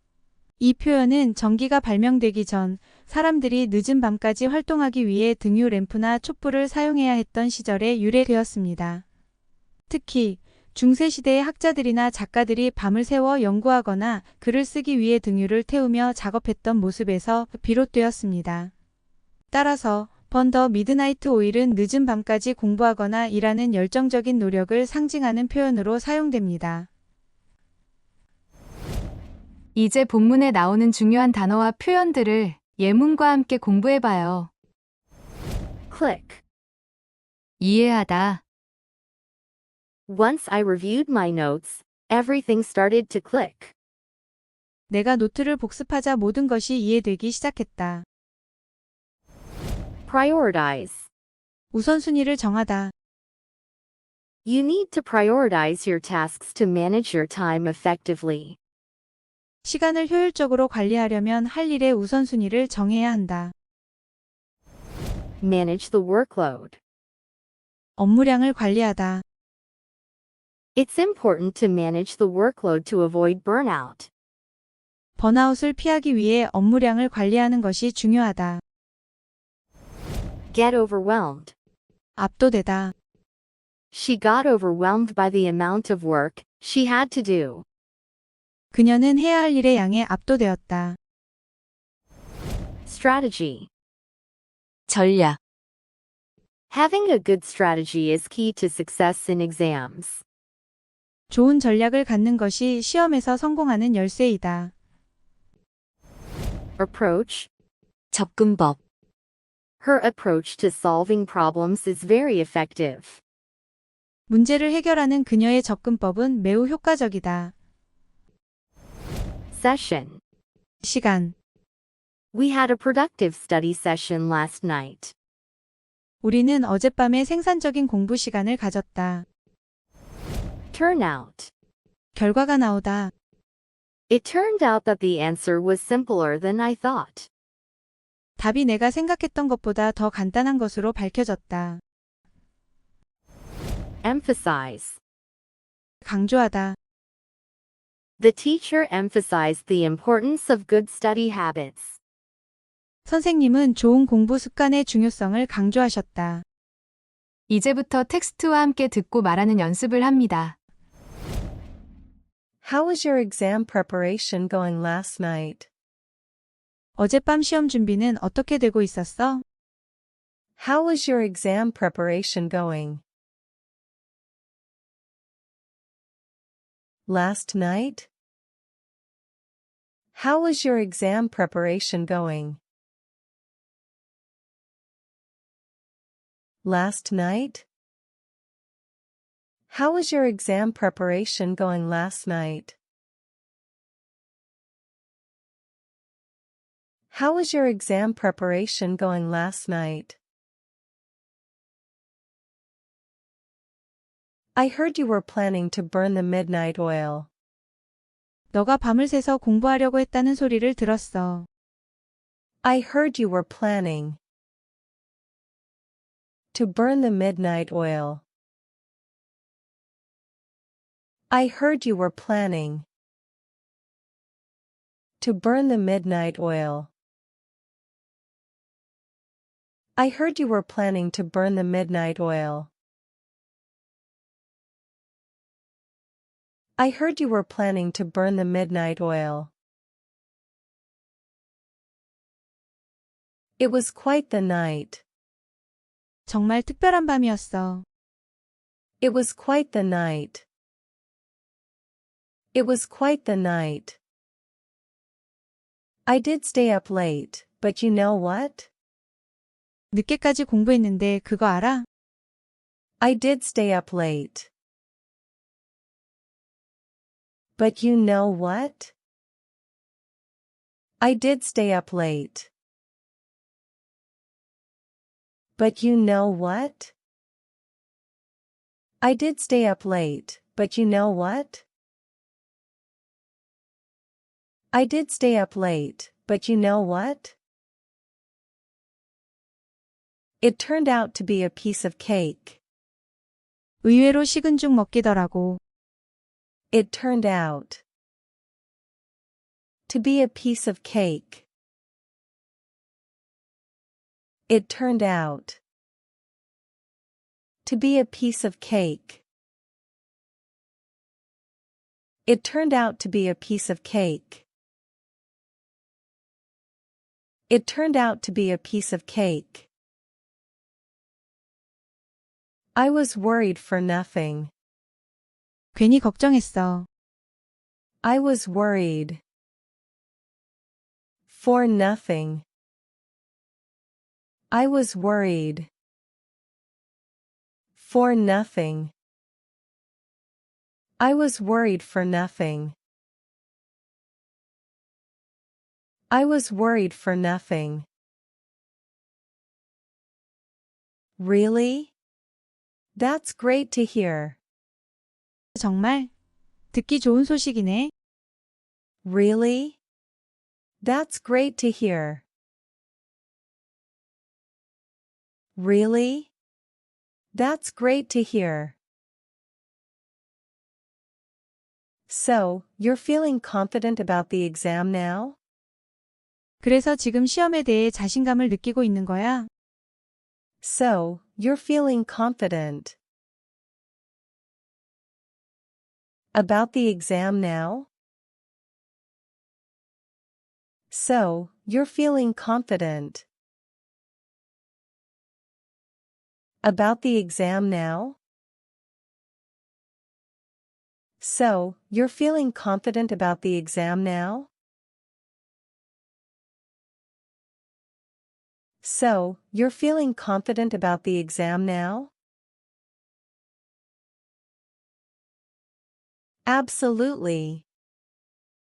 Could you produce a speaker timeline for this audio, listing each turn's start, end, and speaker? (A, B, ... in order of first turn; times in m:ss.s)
0:00.6-0:09.0 A
0:09.9-0:18.7 A
0:19.5-0:26.9 A
0:29.7-0:34.5 B
0:35.9-0:36.4 C
0:37.6-0:38.4 B
0:40.1-0:43.7 C
0:44.9-0:48.0 A
0:50.1-0:51.1 C
0:51.7-0:52.9 A
0:54.4-0:58.6 C
0:59.6-1:03.5 A
1:05.4-1:06.8 C
1:08.0-1:09.2 A
1:10.8-1:14.1 C
1:15.2-1:18.6 A
1:20.5-1:21.5 C
1:22.2-1:22.9 A
1:23.9-1:27.6 C
1:28.7-1:31.0 A
1:32.8-1:33.7 C
1:34.9-1:35.4 B
1:35.0-1:35.3 C
1:36.7-1:40.2 C
1:41.3-1:44.7 A
1:46.8-1:47.5 C
1:48.1-1:48.8 C
1:49.8-1:53.2 C
1:54.3-1:57.5 A
1:59.5-2:00.2 C
2:00.8-2:01.3 A
2:02.3-2:05.1 C
2:06.2-2:09.2 A
2:10.7-2:11.5 C
2:12.1-2:13.1 A
2:14.1-2:17.3 C
2:18.4-2:21.8 A
2:24.0-2:25.0 C
2:26.0-2:26.8 A
2:28.2-2:32.0 C
2:33.0-2:36.4 A
2:37.5-2:40.5 B
2:42.6-2:45.7 D
2:47.0-2:49.4 A
2:50.6-2:53.0 D
2:57.1-2:58.1 D
3:00.1-3:02.6 D
3:06.6-3:07.6 D
3:09.7-3:12.8 D
3:17.1-3:20.2 D
3:24.5-3:27.3 D
3:28.5-3:31.5 A
3:32.6-3:34.2 D
3:36.5-3:38.2 D
3:41.3-3:42.8 D
3:45.2-3:46.9 D
3:50.0-3:52.7 D
3:56.8-3:59.5 D
4:03.6-4:05.0 D
4:06.3-4:07.8 A
4:09.0-4:10.4 D
4:12.5-4:14.0 D
4:16.0-4:18.7 D
4:19.9-4:21.8 A
4:23.0-4:24.5 D
4:27.6-4:28.9 D
4:31.0-4:32.5 D
4:35.6-4:36.9 D
4:39.0-4:41.6 D
4:44.7-4:47.3 D
4:50.4-4:52.6 D
4:53.8-4:55.6 A
4:56.7-4:57.8 D
4:59.9-5:01.4 D
5:04.5-5:05.6 D
5:07.6-5:09.2 D
5:12.2-5:14.4 D
5:17.5-5:19.7 D
5:22.8-5:24.5 D
5:25.7-5:26.8 A
5:28.0-5:29.2 D
5:31.3-5:32.4 D
5:34.5-5:35.7 D
5:37.8-5:38.9 D
5:41.0-5:42.8 D
5:46.1-5:47.8 D
5:51.2-5:51.9 D
5:52.9-5:54.4 D
5:55.6-5:56.1 A
5:56.7-5:57.9 A
5:59.0-5:59.8 D
6:00.8-6:02.2 D
6:05.6-6:06.3 D
6:07.3-6:08.8 D
6:12.1-6:15.4 D
6:16.6-6:19.5 A
6:20.6-6:23.0 D
6:26.3-6:27.9 D
6:30.9-6:33.2 D
6:36.6-6:38.2 D
6:41.2-6:44.5 D
6:48.8-6:52.1 D
6:56.4-6:57.6 D